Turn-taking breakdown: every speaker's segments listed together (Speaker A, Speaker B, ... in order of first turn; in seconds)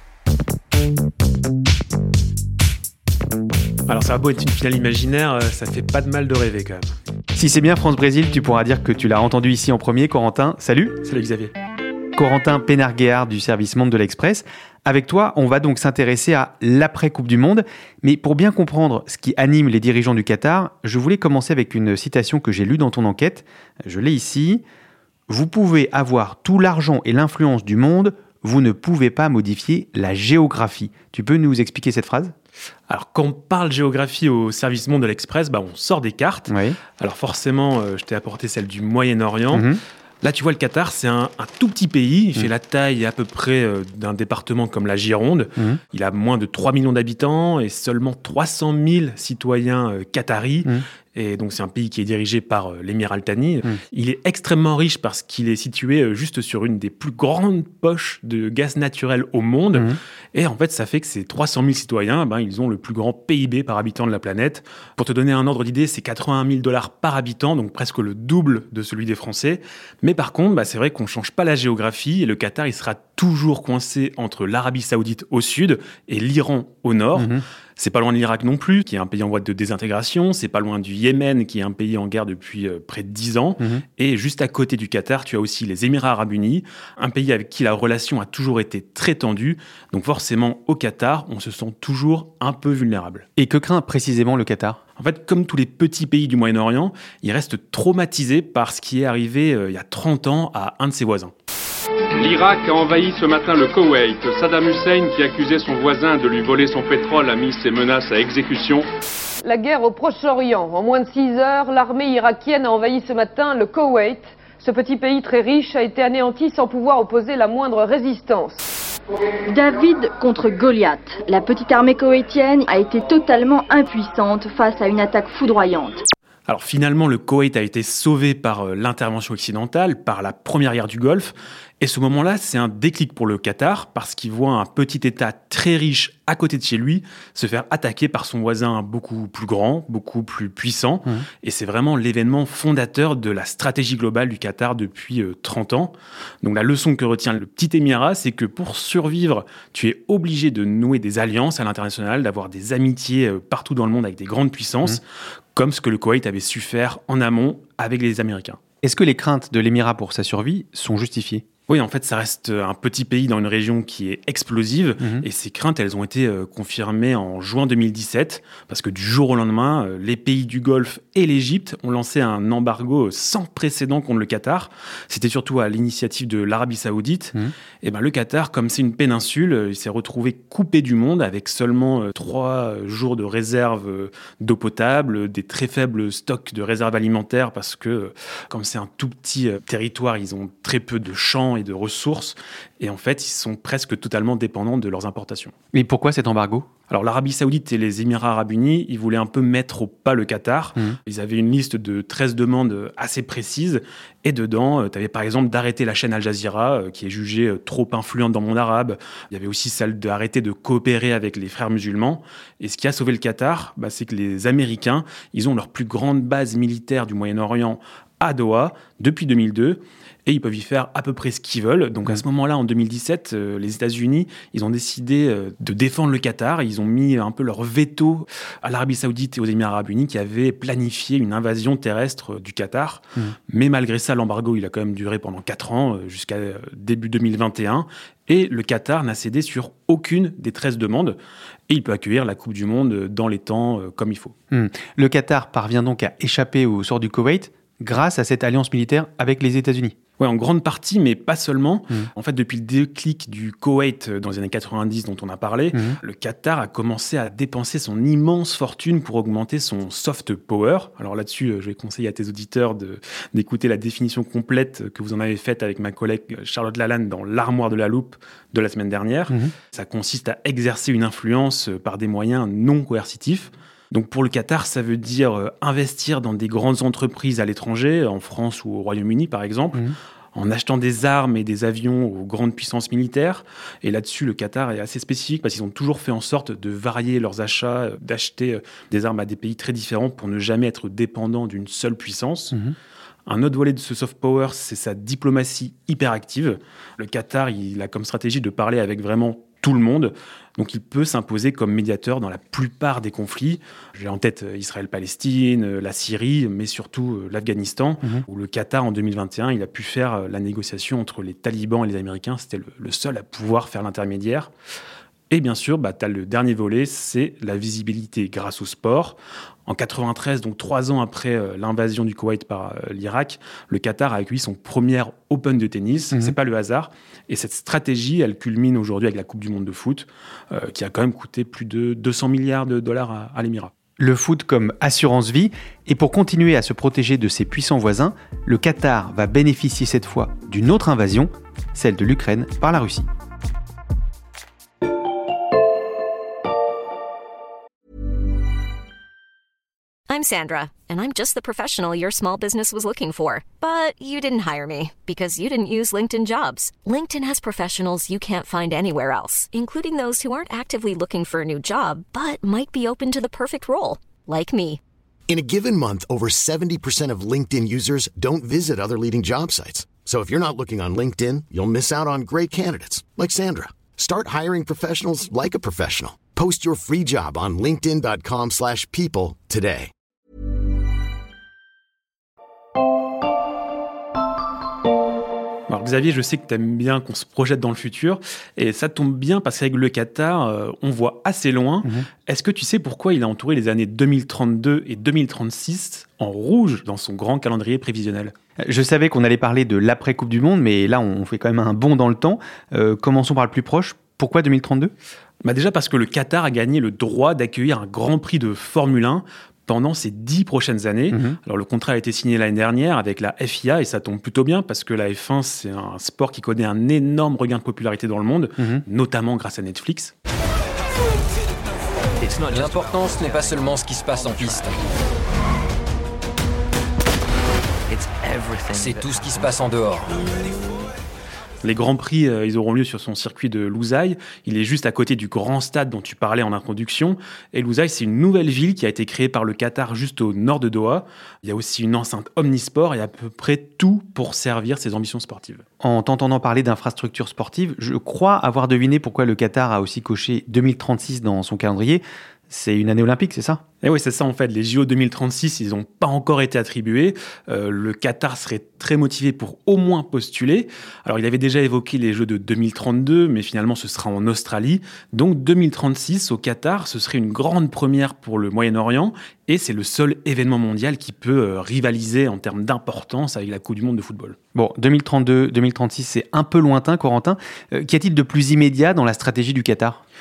Speaker A: 3.9-6.9, 11.0-11.5, 32.9-39.7, 40.2-93.2, 95.0-101.3, 126.5-155.0, 155.6-158.6, 161.7-195.5, 196.9-241.2, 241.7-244.3, 250.2-279.8, 280.3-292.6, 293.3-314.5, 315.3-333.7, 385.7-398.3, 405.4-420.1, 431.6-445.6, 453.8-474.4
Speaker B: 7.3-11.0, 12.1-24.6, 25.3-32.3, 36.5-36.8, 39.5-39.8, 77.2-77.4, 93.4-94.8, 158.8-161.4, 195.7-196.7, 244.5-249.9, 255.7-256.0, 334.0-343.1, 398.7-404.9, 411.1-411.4, 445.8-453.6, 474.5-480.0
Speaker C: 102.2-108.8
Speaker D: 109.4-118.6
Speaker E: 119.5-126.0
Speaker F: 350.1-364.8
Speaker G: 365.3-379.9
Speaker H: 422.2-424.7, 428.7-430.1